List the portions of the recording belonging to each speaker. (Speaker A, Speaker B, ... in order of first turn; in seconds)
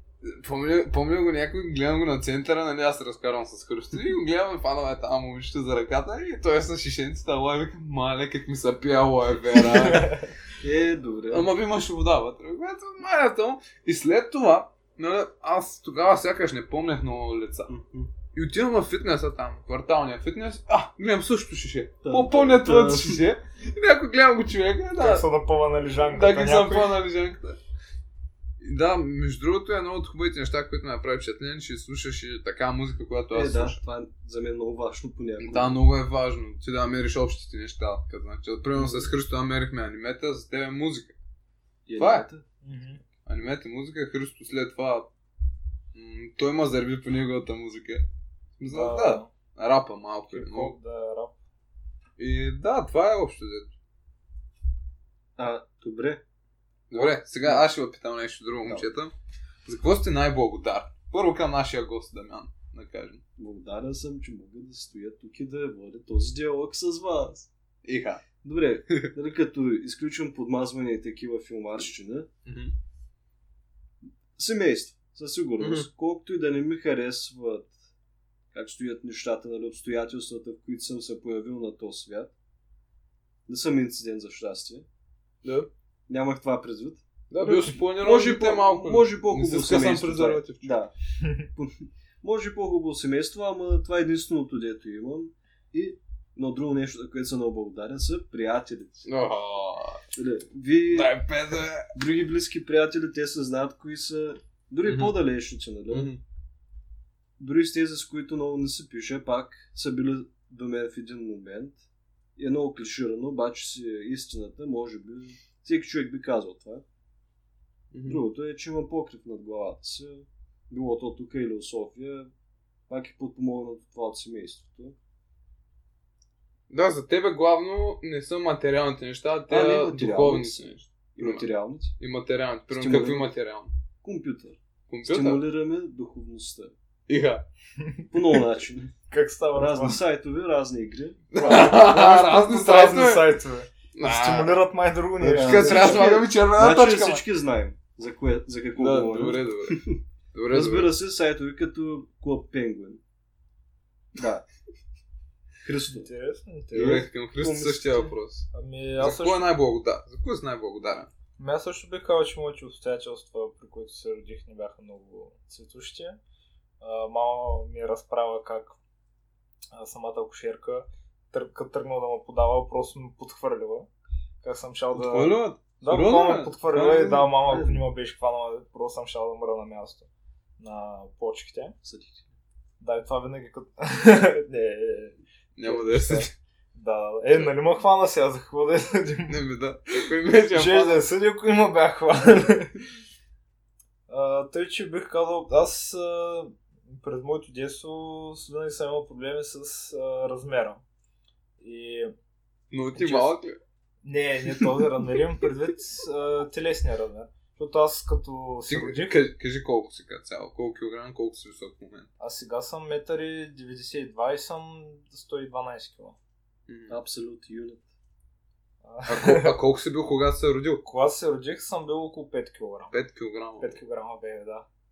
Speaker A: 0.2-10.3, 11.3-17.7, 18.3-25.2, 26.0-27.6, 28.6-33.8, 35.4-41.1, 42.0-42.3, 43.2-45.1, 45.9-48.1, 48.6-50.7, 52.2-53.7, 56.9-59.1, 59.6-63.2, 67.8-68.3, 72.5-72.7, 75.6-75.9, 85.4-85.7, 87.3-90.7, 99.0-100.0, 100.9-101.9, 104.8-105.2, 105.9-106.2, 117.9-118.2, 126.7-133.7, 134.9-135.4, 137.1-137.4, 141.3-143.4, 143.9-144.6, 145.3-147.2, 148.8-149.8, 150.3-150.9, 156.7-161.1, 174.9-177.3, 185.6-186.3, 189.3-191.0, 202.7-203.6, 208.7-212.1, 216.7-217.0, 219.1-220.8, 222.9-223.8
Speaker B: 9.8-10.1, 25.0-27.0, 42.6-43.0, 48.7-49.3, 50.3-51.3, 137.8-138.1, 139.1-140.0, 141.4-146.2, 155.9-157.1, 158.5-159.5, 161.4-166.2, 166.8-168.8, 169.7-173.9, 174.4-180.1, 180.6-181.7, 182.8-189.4, 190.5-192.8, 194.1-200.8, 201.6-202.1, 202.9-203.3, 204.0-209.2, 212.2-216.2, 218.8-219.6, 220.8-222.9, 223.6-224.7
Speaker C: 10.6-11.5, 17.7-18.1, 22.0-23.2, 33.3-35.8, 38.8-39.1, 41.9-42.4, 55.4-56.2, 56.9-57.7, 63.4-67.5, 68.4-72.3, 74.3-77.8, 78.5-82.3, 83.5-84.9, 86.1-99.1, 100.1-101.2, 101.9-106.1, 107.4-111.8, 112.3-116.8, 118.1-122.3, 122.9-125.0, 129.5-131.9, 132.7-133.3, 134.0-136.7, 138.1-138.9, 139.5-141.7, 145.2-153.0, 154.1-154.4, 155.6-156.1, 156.7-158.1, 177.4-177.9, 181.8-182.3, 216.9-217.8